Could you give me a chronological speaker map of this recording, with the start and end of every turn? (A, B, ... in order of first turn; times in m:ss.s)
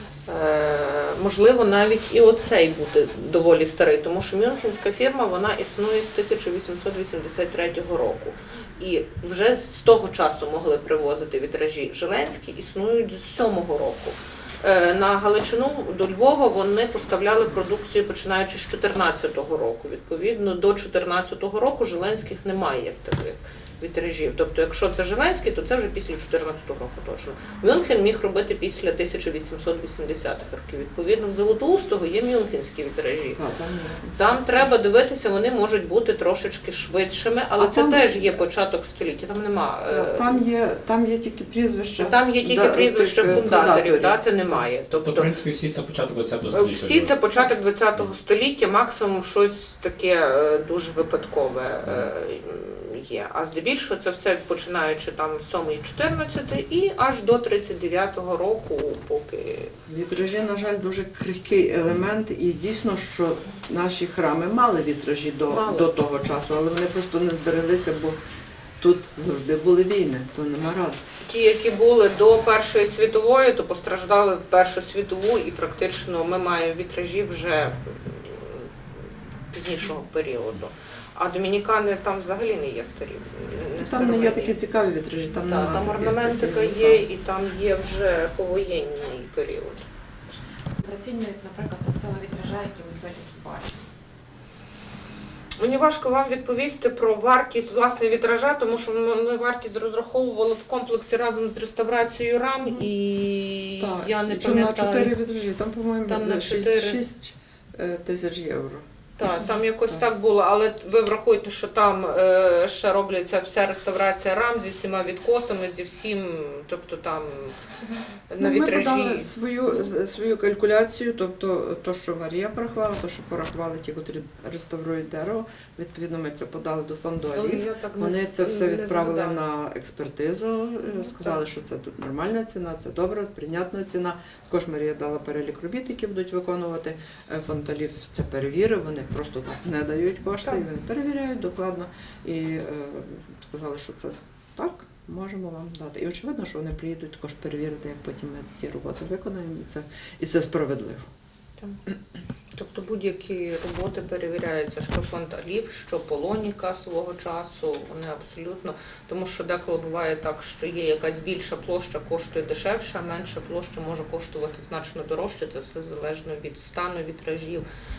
0:00.2-0:33.4 A
0:33.4-0:34.7 B
0:34.2-0:40.4 A
0:37.6-0:38.3 B
0:39.9-0:44.6 B
0:42.0-0:45.3 A
0:45.0-0:47.1 C
0:46.5-0:59.7 A
0:59.9-1:08.2 B
1:05.5-1:05.9 A
1:08.8-1:11.0 B
1:11.2-1:18.7 A
1:19.5-1:24.6 A
1:23.8-1:27.1 B
1:25.4-1:29.8 A
1:30.8-1:33.9 D
1:35.6-1:45.1 A
1:43.8-1:48.9 B
1:46.1-1:47.0 A
1:49.2-1:57.5 A
1:58.3-1:59.3 A
1:58.4-2:31.0 B
2:07.3-2:09.4 A
2:11.0-2:11.4 A
2:32.6-2:47.6 A